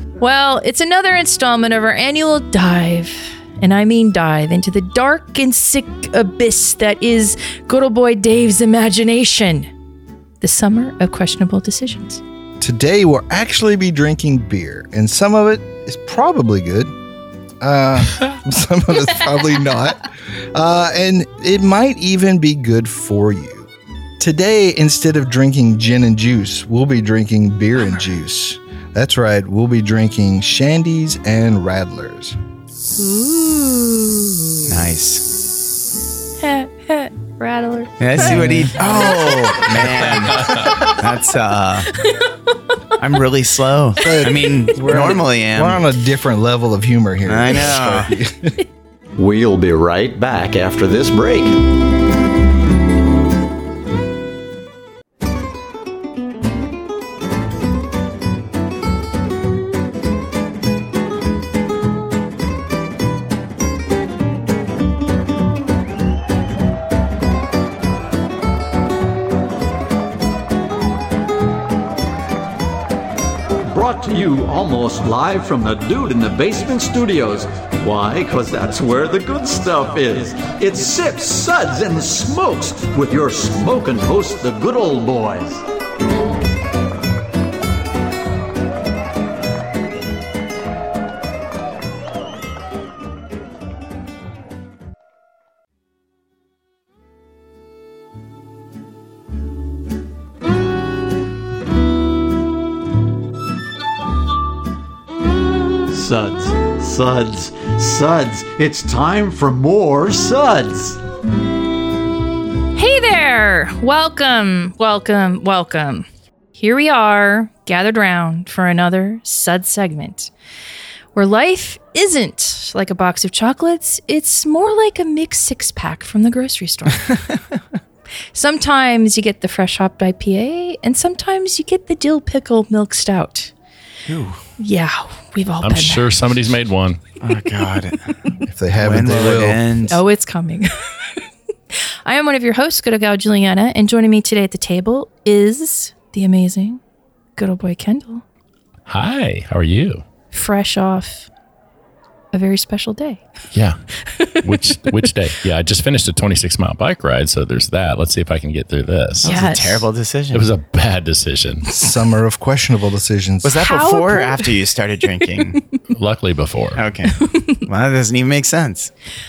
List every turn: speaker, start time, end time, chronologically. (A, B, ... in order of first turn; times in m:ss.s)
0:00.2-0:09.7 A
0:10.4-0:12.2 A
0:12.6-0:16.9 B
0:17.6-0:32.4 B
0:33.0-0:34.7 A
0:34.6-0:35.3 C
0:36.4-0:41.0 A
0:38.0-0:41.9 C
0:38.2-0:39.0 B
0:41.9-0:42.3 A
0:43.0-0:45.8 C
0:44.0-0:48.6 B
0:44.2-0:44.5 A
0:47.2-0:48.1 C
0:49.2-0:51.6 D
1:13.6-1:25.6 D
1:45.9-1:51.0 D
1:52.7-2:00.3 A
2:01.1-2:07.1 A
2:08.3-2:13.5 A
2:14.1-2:14.4 C
2:14.6-2:16.0 A
2:15.6-2:17.0 E
2:17.2-2:18.2 C
2:18.5-2:19.9 B
2:18.8-2:20.0 C
2:19.9-2:21.2 A
2:22.0-2:26.8 A
2:27.4-2:28.2 A
2:28.9-2:30.0 E
2:30.3-2:31.3 A
2:32.3-2:33.2 A
2:33.5-2:33.8 E
2:34.0-2:34.9 A
2:34.4-2:39.3 E
2:39.2-2:40.5 C
2:39.2-2:39.8 A
2:40.3-2:41.6 E
2:41.7-2:43.8 B
2:43.4-2:45.6 C
2:43.5-2:44.6 A
2:45.2-2:45.5 A
2:45.9-2:46.8 E
2:46.8-2:48.9 C
2:47.2-2:47.6 A